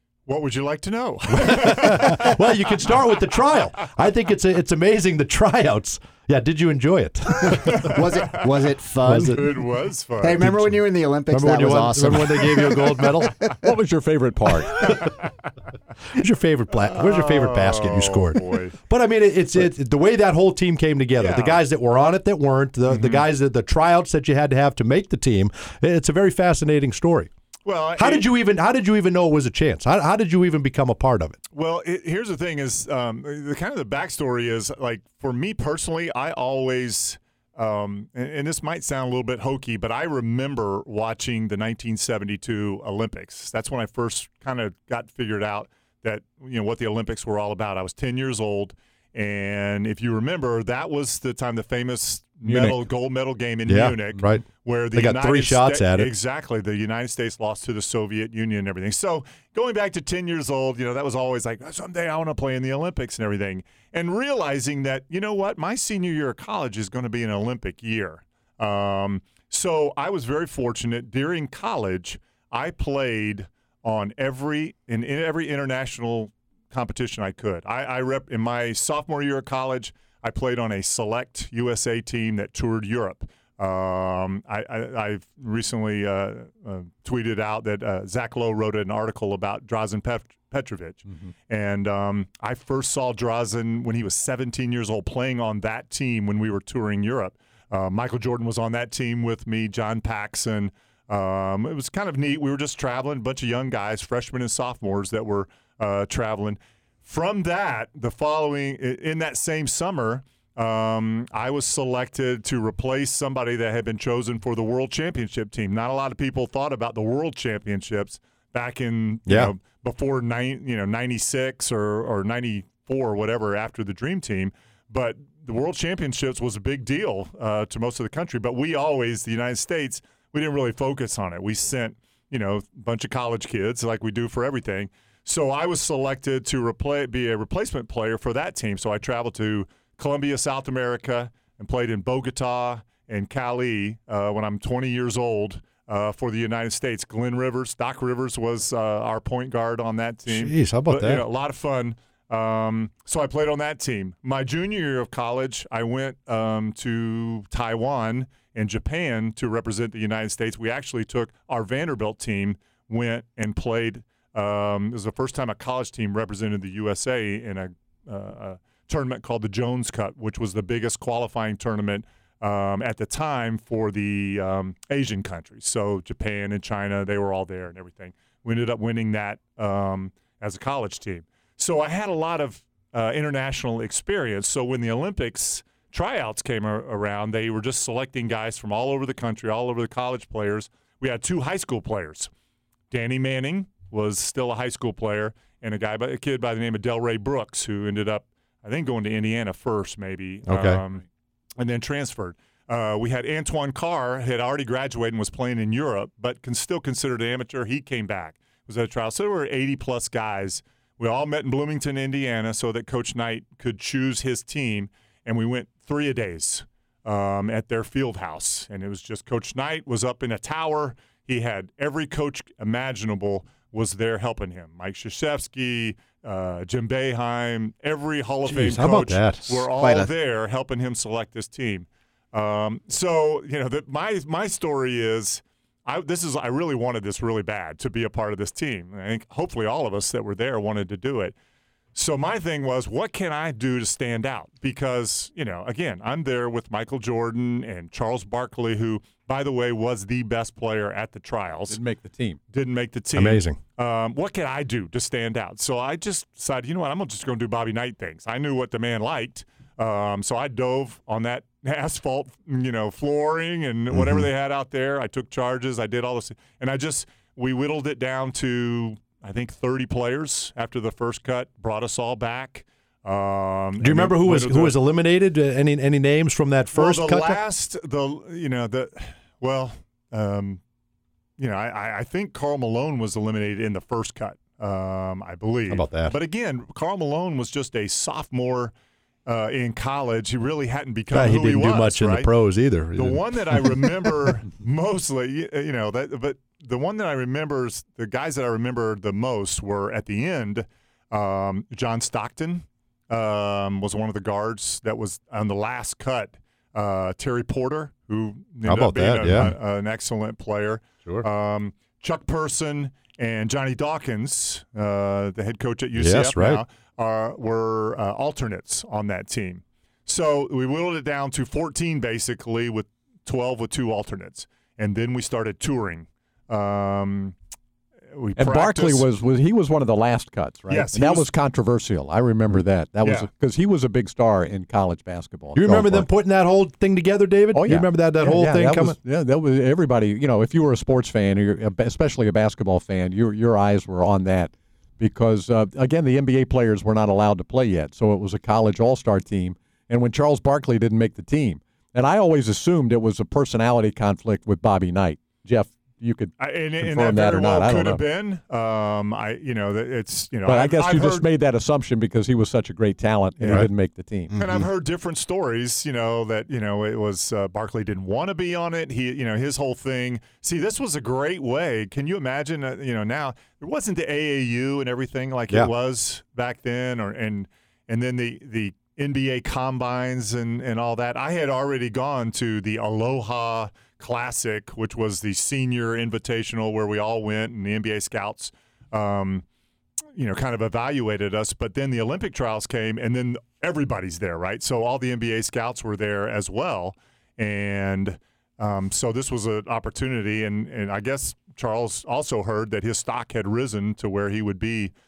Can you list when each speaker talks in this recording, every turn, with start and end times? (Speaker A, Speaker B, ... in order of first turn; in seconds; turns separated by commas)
Speaker A: 0.3-2.5, Speaker B: 1.3-8.0, Speaker A: 7.4-8.5, Speaker C: 7.8-9.6, Speaker B: 9.0-9.5, Speaker A: 9.1-10.4, Speaker C: 10.2-13.5, Speaker B: 10.4-13.3, Speaker D: 13.6-14.9, Speaker B: 14.8-15.1, Speaker B: 16.1-27.3, Speaker A: 16.8-18.7, Speaker A: 21.2-21.6, Speaker A: 22.9-23.2, Speaker A: 27.6-28.3, Speaker B: 28.0-31.4, Speaker A: 31.5-192.3, Speaker D: 52.4-52.8, Speaker B: 53.6-56.1, Speaker B: 119.3-119.5, Speaker B: 150.3-151.2, Speaker A: 192.9-201.0, Speaker B: 200.5-200.8, Speaker A: 201.6-241.3, Speaker B: 228.5-229.7, Speaker C: 229.8-230.1, Speaker A: 241.9-251.8, Speaker D: 251.7-252.4, Speaker A: 252.5-274.7, Speaker B: 253.1-253.6, Speaker B: 273.8-277.4, Speaker A: 276.7-280.6, Speaker A: 281.4-288.7, Speaker B: 285.7-286.1, Speaker A: 289.2-292.3, Speaker B: 291.1-293.8, Speaker A: 292.9-327.3, Speaker B: 308.6-309.5, Speaker B: 315.9-316.6, Speaker A: 328.1-329.1, Speaker D: 328.4-336.1, Speaker A: 330.7-331.3, Speaker B: 335.6-338.9, Speaker D: 337.5-358.0, Speaker A: 356.4-361.3, Speaker D: 360.4-364.3, Speaker A: 363.4-363.7, Speaker C: 364.3-364.6, Speaker A: 364.4-389.4, Speaker A: 390.1-404.9